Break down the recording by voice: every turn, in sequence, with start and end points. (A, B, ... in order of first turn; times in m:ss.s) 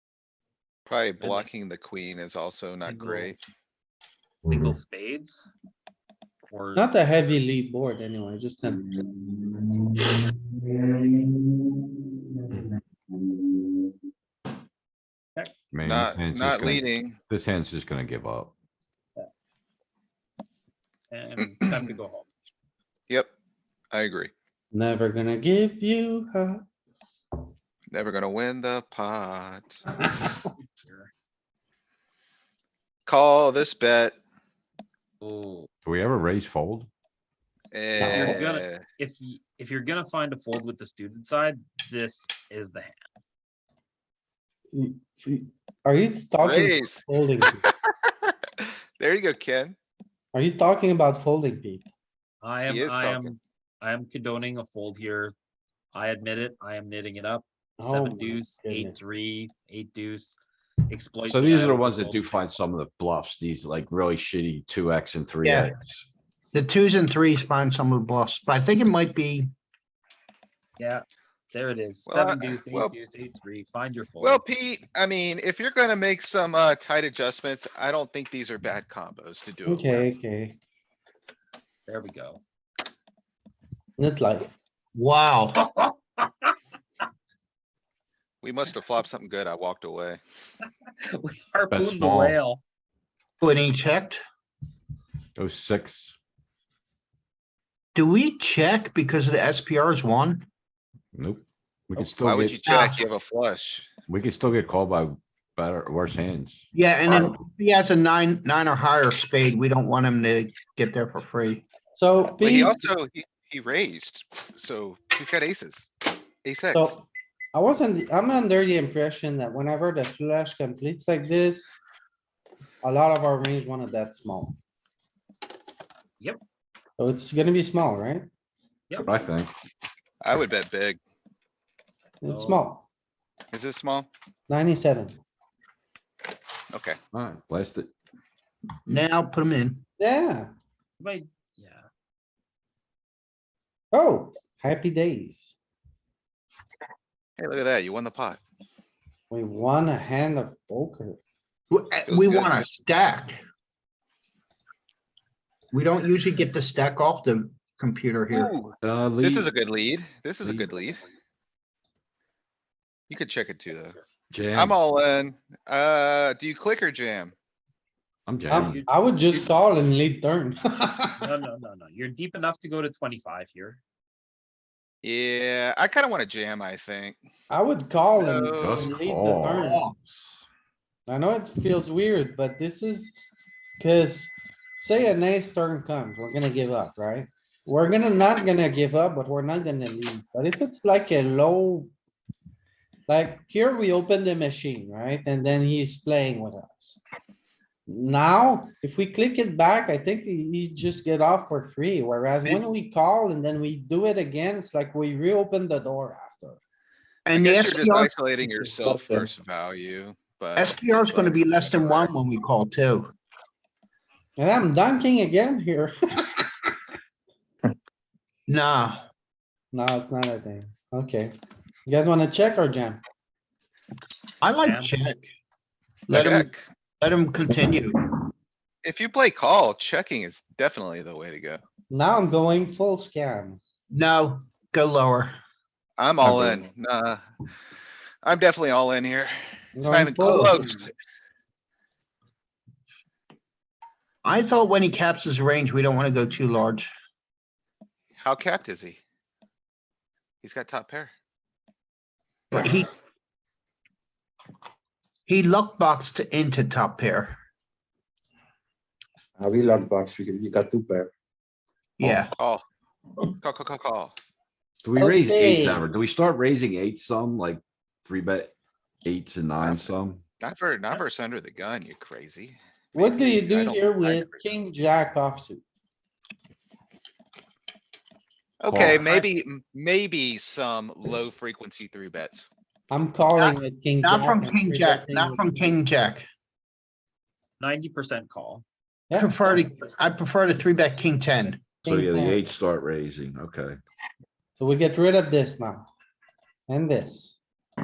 0:00.9-0:03.4 A
0:01.2-0:01.5 B
0:02.8-0:03.4 B
0:04.5-0:05.5 B
0:04.5-0:04.7 C
0:06.5-0:06.9 B
0:06.7-0:09.0 D
0:15.7-0:18.5 C
0:15.8-0:17.2 A
0:21.1-0:22.3 B
0:23.9-0:24.3 A
0:24.7-0:26.6 D
0:27.9-0:29.8 A
0:30.6-0:31.1 B
0:33.1-0:34.2 A
0:35.2-0:35.7 B
0:35.8-0:36.9 C
0:37.7-0:38.8 A
0:38.0-0:38.4 D
0:38.0-0:43.0 B
0:44.7-0:47.6 D
0:46.4-0:47.8 A
0:49.0-0:49.8 A
0:50.3-0:51.9 D
0:52.4-0:55.3 B
0:52.7-0:53.4 A
0:55.9-1:02.4 B
0:57.8-0:59.1 D
1:01.3-1:06.1 C
1:05.4-1:05.7 E
1:06.5-1:09.5 E
1:10.8-1:14.4 B
1:12.1-1:12.9 A
1:14.2-1:20.1 A
1:19.7-1:20.6 D
1:21.9-1:22.4 B
1:24.0-1:24.6 D
1:24.9-1:25.6 E
1:25.8-1:26.3 B
1:28.4-1:30.2 A
1:31.0-1:32.6 B
1:31.7-1:32.4 C
1:33.4-1:34.2 E
1:35.4-1:36.2 C
1:38.0-1:40.5 E
1:41.1-1:42.6 C
1:42.2-1:43.9 A
1:42.7-1:43.0 E
1:44.1-1:46.6 C
1:46.7-1:51.7 E
1:52.0-1:52.8 D
1:52.4-1:55.9 A
1:56.4-1:57.0 A
1:56.7-2:01.8 D
2:02.8-2:04.6 D
2:07.0-2:08.3 D
2:09.0-2:09.5 C
2:10.2-2:11.0 A
2:12.2-2:12.9 D
2:12.3-2:12.6 B
2:13.5-2:14.1 A
2:14.5-2:15.2 D
2:16.7-2:17.0 A
2:17.1-2:17.9 C
2:18.9-2:19.8 E
2:20.0-2:20.5 D
2:21.0-2:21.9 B
2:23.9-2:25.6 D
2:27.4-2:28.4 A
2:29.3-2:31.2 D
2:31.7-2:33.4 E
2:32.1-2:32.6 A
2:35.7-2:38.6 E
2:38.4-2:41.0 A
2:38.8-2:39.5 C
2:43.1-2:44.0 A
2:44.3-2:44.8 C
2:44.5-2:47.4 A
2:48.3-2:48.8 C
2:48.5-2:48.9 B
2:48.5-2:51.2 D
2:51.2-2:53.8 B
2:55.0-2:57.2 A
2:57.5-2:59.8 D
2:58.1-2:58.9 A
2:58.6-3:00.4 C
2:59.5-2:59.9 A
3:01.1-3:03.2 D
3:03.8-3:11.9 D
3:13.1-3:17.0 D
3:17.9-3:26.6 D
3:27.3-3:28.1 E
3:27.3-3:32.1 A
3:28.6-3:29.3 F
3:30.6-3:33.1 E
3:34.4-3:36.7 D
3:38.5-3:39.0 E
3:39.7-3:43.0 D
3:44.4-3:45.3 E
3:44.6-3:45.0 B
3:46.1-3:48.0 E
3:46.1-3:46.6 A
3:48.8-3:51.6 A
3:51.9-3:53.6 D
3:53.9-3:55.4 E
3:56.0-3:57.2 A
3:56.2-3:56.6 E
3:58.2-4:00.9 A
3:59.8-4:00.7 D
4:00.2-4:00.6 E
4:04.2-4:06.9 E
4:08.2-4:09.0 A
4:10.4-4:11.1 A
4:12.5-4:12.9 E
4:15.3-4:17.4 E
4:19.4-4:21.1 F
4:22.0-4:22.3 E
4:22.4-4:22.6 A
4:23.4-4:24.2 A
4:24.8-4:30.2 C
4:25.0-4:25.9 D
4:29.6-4:34.5 A
4:33.0-4:35.6 D
4:38.6-4:42.5 A
4:38.7-4:39.0 C
4:38.7-4:39.3 B
4:42.9-4:45.7 D
4:44.0-4:46.3 E
4:47.6-4:48.6 B
4:49.1-4:49.6 D
4:49.1-4:51.8 E
4:51.8-4:53.8 C
4:51.8-4:52.4 D
4:54.6-4:55.9 D
4:56.7-4:57.4 D